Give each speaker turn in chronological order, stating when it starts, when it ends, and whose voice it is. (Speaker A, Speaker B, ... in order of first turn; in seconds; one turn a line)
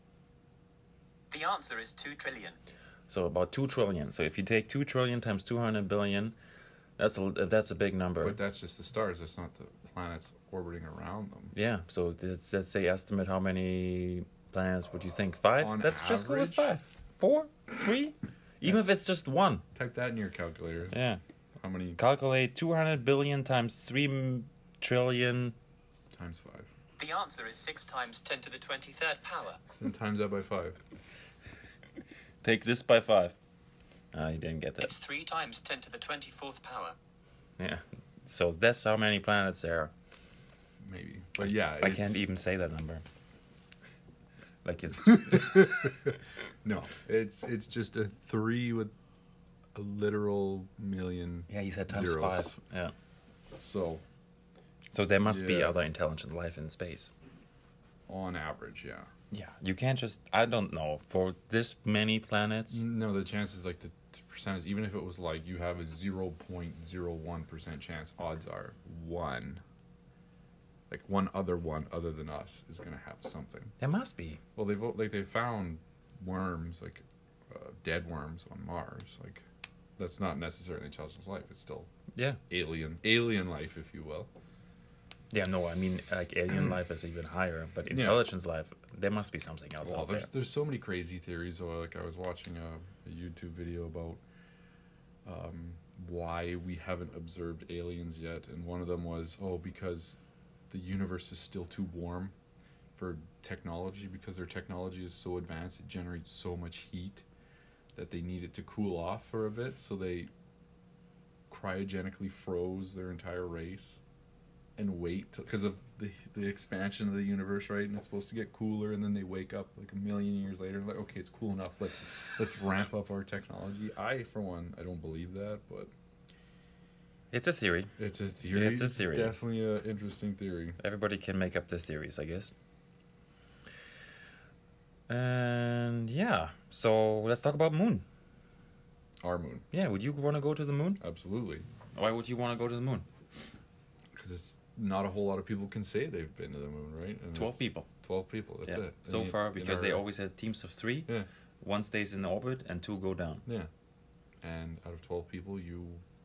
Speaker A: 1.3-2.6
Speaker B: 3.1-6.3
Speaker B: 7.0-8.4
Speaker C: 8.2-11.5
Speaker B: 11.5-19.6
Speaker C: 15.6-16.7
Speaker C: 19.7-20.9
Speaker B: 20.9-21.2
Speaker C: 21.6-22.0
Speaker B: 22.0-25.6
Speaker C: 26.1-26.7
Speaker A: 27.0-29.6
Speaker C: 29.8-30.8
Speaker B: 32.4-33.4
Speaker B: 34.1-34.9
Speaker A: 34.8-37.0
Speaker B: 37.6-39.9
Speaker C: 40.8-42.2
Speaker B: 41.4-43.0
Speaker B: 44.6-45.7
Speaker C: 45.1-48.9
Speaker C: 49.8-52.6
Speaker B: 51.5-52.9
Speaker C: 53.6-54.0
Speaker B: 54.9-57.1
Speaker C: 55.3-55.8
Speaker C: 58.1-59.1
Speaker B: 59.3-62.8
Speaker C: 62.7-69.6
Speaker C: 70.9-73.7
Speaker B: 73.8-74.4
Speaker C: 74.6-79.5
Speaker C: 80.0-81.9
Speaker B: 82.2-82.4
Speaker C: 82.5-84.3
Speaker B: 85.3-90.3
Speaker C: 87.9-88.2
Speaker C: 89.8-94.2
Speaker C: 95.2-100.2
Speaker C: 100.7-102.3
Speaker C: 103.0-107.2
Speaker C: 108.0-110.3
Speaker C: 111.5-114.0
Speaker C: 114.8-125.9
Speaker B: 127.3-127.9
Speaker C: 128.0-130.8
Speaker B: 128.5-129.3
Speaker B: 130.8-132.5
Speaker B: 135.1-138.0
Speaker C: 139.2-139.7
Speaker B: 139.7-141.0
Speaker C: 141.0-141.7
Speaker B: 141.9-143.1
Speaker C: 144.2-150.0
Speaker B: 147.3-147.9
Speaker B: 148.7-153.5
Speaker C: 154.4-156.0